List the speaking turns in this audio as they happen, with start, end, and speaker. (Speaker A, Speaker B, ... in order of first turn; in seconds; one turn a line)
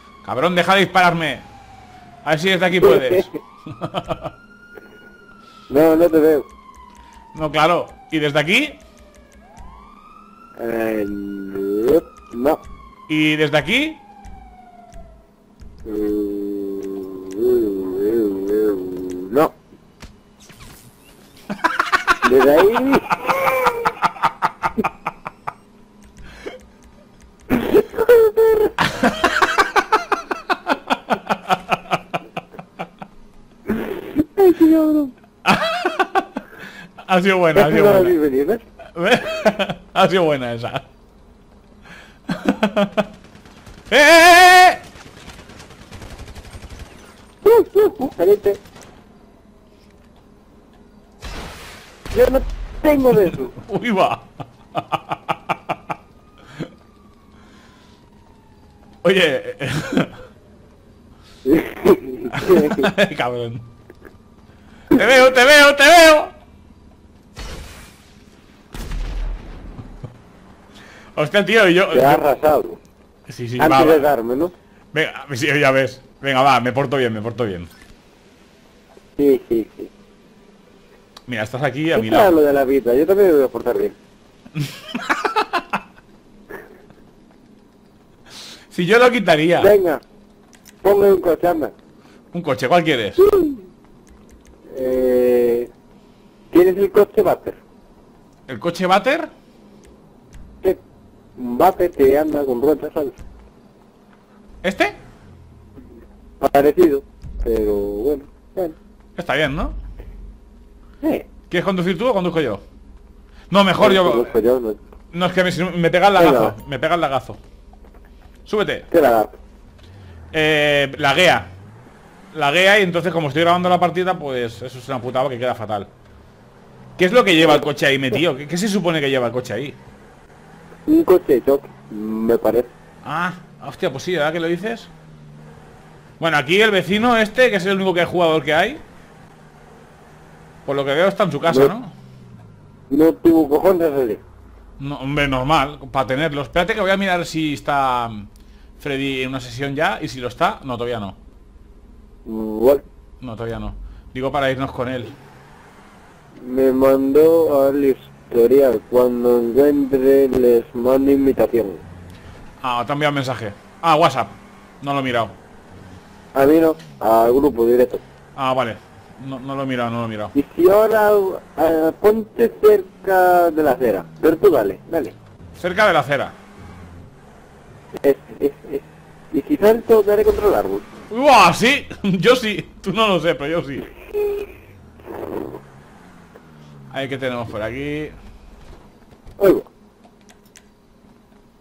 Speaker A: 0.2-1.4
Speaker A: 2.2-4.3
Speaker B: 2.8-3.3
Speaker B: 5.7-6.5
Speaker A: 7.3-8.8
Speaker B: 10.6-12.6
Speaker A: 13.1-14.0
Speaker B: 15.8-19.6
Speaker B: 22.2-23.5
Speaker B: 27.5-28.8
Speaker A: 28.9-29.6
Speaker A: 30.5-32.0
Speaker B: 33.7-35.1
Speaker A: 35.4-36.4
Speaker A: 37.0-38.1
Speaker B: 37.5-38.6
Speaker A: 39.0-40.9
Speaker A: 42.3-43.1
Speaker A: 43.9-44.8
Speaker B: 47.4-48.6
Speaker B: 52.1-53.6
Speaker A: 53.6-55.8
Speaker A: 59.0-60.2
Speaker B: 61.4-62.9
Speaker A: 62.3-63.6
Speaker A: 64.9-66.3
Speaker A: 71.1-72.2
Speaker B: 71.9-72.8
Speaker A: 73.3-74.1
Speaker B: 73.6-74.5
Speaker A: 74.9-77.7
Speaker B: 79.2-79.9
Speaker A: 81.3-82.3
Speaker B: 81.9-84.0
Speaker A: 84.6-85.8
Speaker A: 88.7-89.7
Speaker B: 89.6-90.0
Speaker B: 90.8-91.7
Speaker A: 92.3-93.2
Speaker B: 93.2-93.6
Speaker B: 94.7-95.7
Speaker B: 96.5-97.6
Speaker A: 98.5-99.3
Speaker B: 101.4-103.1
Speaker A: 104.6-105.0
Speaker B: 106.4-108.8
Speaker A: 109.2-109.8
Speaker B: 111.0-111.3
Speaker A: 111.5-112.6
Speaker A: 113.5-114.3
Speaker B: 113.8-114.8
Speaker A: 115.1-117.4
Speaker B: 116.2-116.5
Speaker A: 118.5-118.9
Speaker B: 118.9-119.4
Speaker A: 120.3-121.5
Speaker A: 122.3-125.9
Speaker A: 127.0-129.8
Speaker B: 130.9-132.7
Speaker A: 133.0-134.9
Speaker A: 136.2-138.8
Speaker A: 140.6-141.9
Speaker B: 142.9-144.2
Speaker A: 144.8-148.3
Speaker A: 148.8-151.2
Speaker B: 152.2-152.8
Speaker A: 153.2-155.1
Speaker B: 156.4-161.8
Speaker A: 162.6-165.3
Speaker B: 166.3-168.0
Speaker A: 168.4-170.3
Speaker B: 170.3-175.1
Speaker A: 175.6-176.3
Speaker B: 178.0-180.9
Speaker A: 181.1-183.9
Speaker B: 184.2-184.5
Speaker B: 185.2-185.6
Speaker A: 186.9-188.1
Speaker B: 189.4-189.7